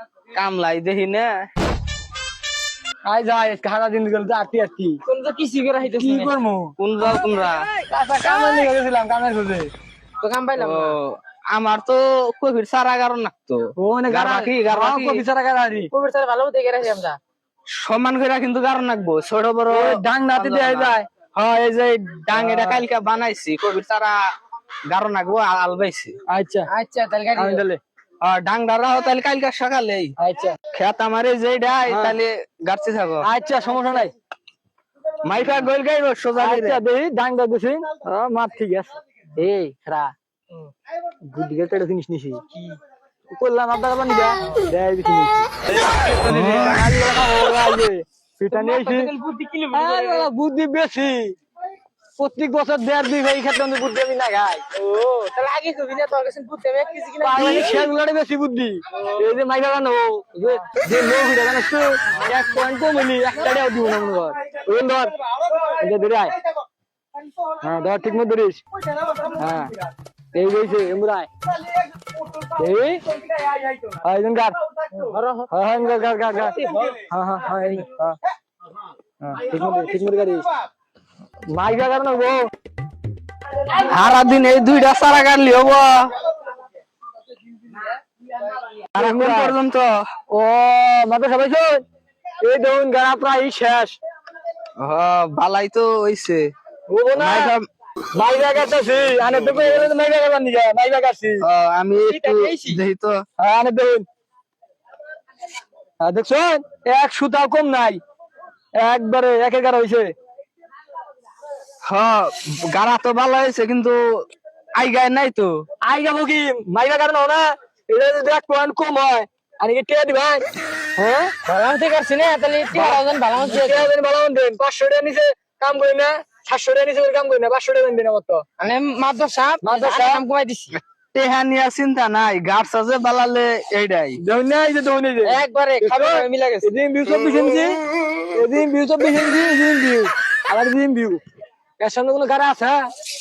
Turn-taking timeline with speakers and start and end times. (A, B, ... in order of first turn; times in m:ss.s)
0:00.3-0:01.3 A
0:03.1-0:05.0 B
0:05.0-0:06.3 C
0:06.0-0:06.7 B
0:06.8-0:07.6 A
0:07.8-0:08.7 C
0:07.9-0:09.7 B
0:10.2-0:11.0 C
0:10.6-0:15.2 A
0:13.8-0:15.9 B
0:15.9-0:17.2 C
0:17.8-0:24.1 A
0:19.7-0:21.0 B
0:22.3-0:22.8 B
0:24.9-0:26.1 A
0:26.3-0:26.7 B
0:26.7-0:27.6 C
0:27.4-0:27.8 B
0:28.2-0:30.1 A
0:30.2-0:30.5 B
0:30.7-0:33.3 A
0:31.9-0:32.2 B
0:33.2-0:34.1 B
0:35.2-0:36.8 A
0:36.4-0:40.1 B
0:41.3-0:42.4 B
0:42.5-0:42.8 C
0:43.3-0:45.3 B
0:46.1-0:46.8 A
0:46.2-0:49.1 B
0:48.5-0:50.3 C
0:49.7-0:51.3 B
0:52.2-0:54.6 B
0:54.7-0:57.9 C
0:57.2-1:06.3 B
1:07.6-1:08.6 B
1:09.3-1:09.7 B
1:10.3-1:11.3 B
1:12.6-1:13.0 B
1:13.9-1:14.5 B
1:14.9-1:15.5 C
1:15.5-1:18.2 B
1:16.6-1:17.0 C
1:19.2-1:20.4 B
1:21.5-1:22.4 B
1:23.8-1:26.1 A
1:28.9-1:29.9 A
1:29.0-1:29.6 B
1:30.3-1:31.8 B
1:32.4-1:34.0 B
1:34.8-1:36.5 A
1:36.9-1:37.5 B
1:37.2-1:37.6 A
1:38.1-1:41.4 B
1:39.2-1:39.9 A
1:41.4-1:43.1 A
1:42.0-1:42.8 C
1:43.4-1:44.0 B
1:46.0-1:48.0 B
1:48.8-1:50.1 B
1:51.9-1:54.0 A
1:54.8-1:55.5 A
1:55.8-2:00.4 B
2:01.0-2:01.3 B
2:01.4-2:03.9 C
2:02.7-2:08.4 B
2:08.6-2:10.7 C
2:09.6-2:10.2 B
2:10.7-2:14.2 A
2:14.2-2:17.8 B
2:15.2-2:16.7 C
2:18.3-2:21.2 B
2:21.8-2:22.8 B